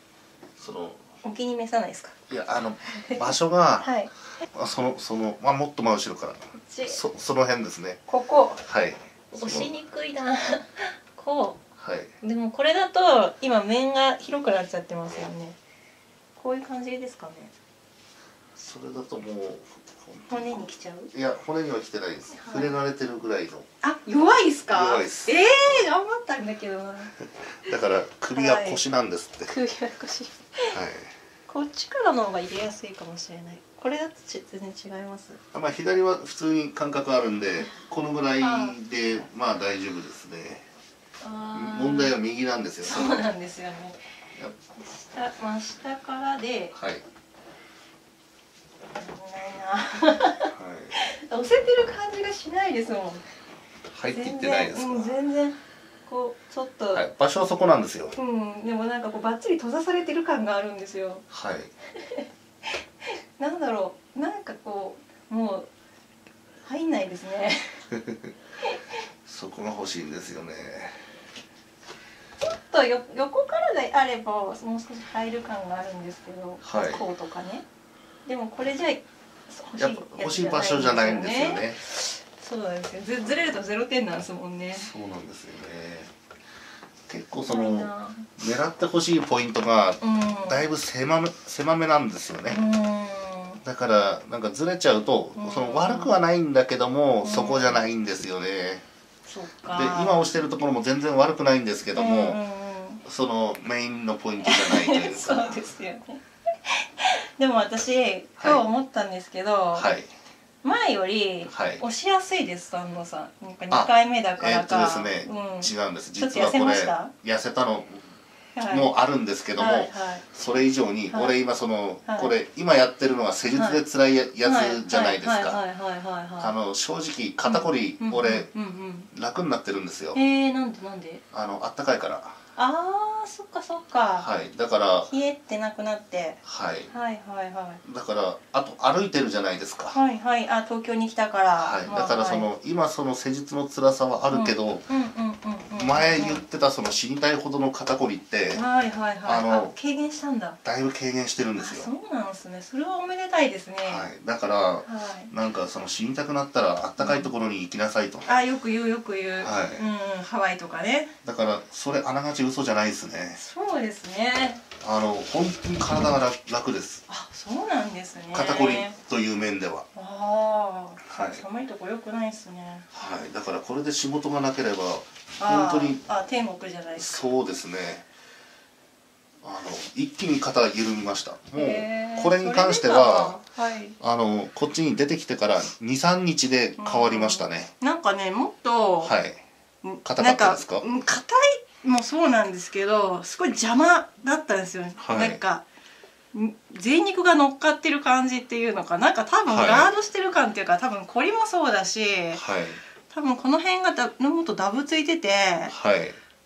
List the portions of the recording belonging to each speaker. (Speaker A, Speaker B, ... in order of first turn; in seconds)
Speaker A: 0.6-1.0, 2.3-3.9, 4.5-8.0, 8.6-9.7, 11.8-12.1, 18.6-20.5, 21.1-23.6, 24.7-25.8, 27.6-29.5, 30.7-31.1, 35.5-40.7, 41.5-43.2, 46.7-47.0, 50.5-51.0, 53.9-55.1, 56.9-58.1, 61.3-61.7, 67.9-68.3, 69.3-71.1, 76.6-77.0, 79.8-81.8, 84.7-86.1, 87.1-92.6, 93.6-98.8, 99.7-102.4, 103.0-105.7, 108.4-108.7, 109.7-110.1, 111.5-111.8, 113.7-118.1, 118.7-125.6, 126.4-128.5, 129.1-130.2, 131.3-132.4, 134.2-135.1, 136.4-136.9, 137.8-140.0, 141.6-144.9, 145.8-148.6, 149.2-149.7, 150.6-151.9, 153.8-158.4, 159.4-159.8, 161.2-163.4, 164.8-167.0, 168.3-169.9, 171.1-171.4, 172.9-176.0, 177.0-178.1, 179.4-183.4, 184.0-187.7, 189.0-189.4, 190.1-190.8, 195.0-195.4, 199.5-199.9, 202.3-202.8, 205.7-206.2
Speaker B: 1.2-2.1, 2.9-4.1, 6.5-7.0, 8.1-8.6, 9.3-11.6, 12.2-15.6, 16.4-17.5, 20.3-21.1, 22.3-22.8, 23.8-27.1, 28.3-28.8, 29.5-30.8, 31.5-35.4, 38.4-38.8, 41.2-42.2, 42.8-44.0, 44.8-46.8, 49.0-53.2, 54.1-57.0, 58.1-61.2, 62.0-62.3, 63.0-65.7, 66.6-67.8, 68.6-69.0, 72.4-77.7, 78.2-84.9, 87.5-88.3, 90.0-90.7, 92.5-93.6, 95.4-96.2, 97.2-97.8, 99.3-100.3, 102.0-103.0, 104.4-109.9, 110.6-117.1, 118.5-118.9, 119.6-120.2, 121.1-121.3, 122.1-122.3, 123.5-123.8, 124.4-126.5, 127.5-129.1, 130.1-131.2, 132.6-134.3, 135.1-137.8, 139.9-142.5, 144.3-146.4, 148.5-150.6, 151.6-154.1, 154.8-155.3, 157.0-157.3, 158.3-161.1, 163.4-164.6, 167.1-169.0, 169.9-172.9, 175.4-177.2, 181.6-184.0, 186.8-189.1, 189.8-195.7, 196.3-202.4, 203.1-205.7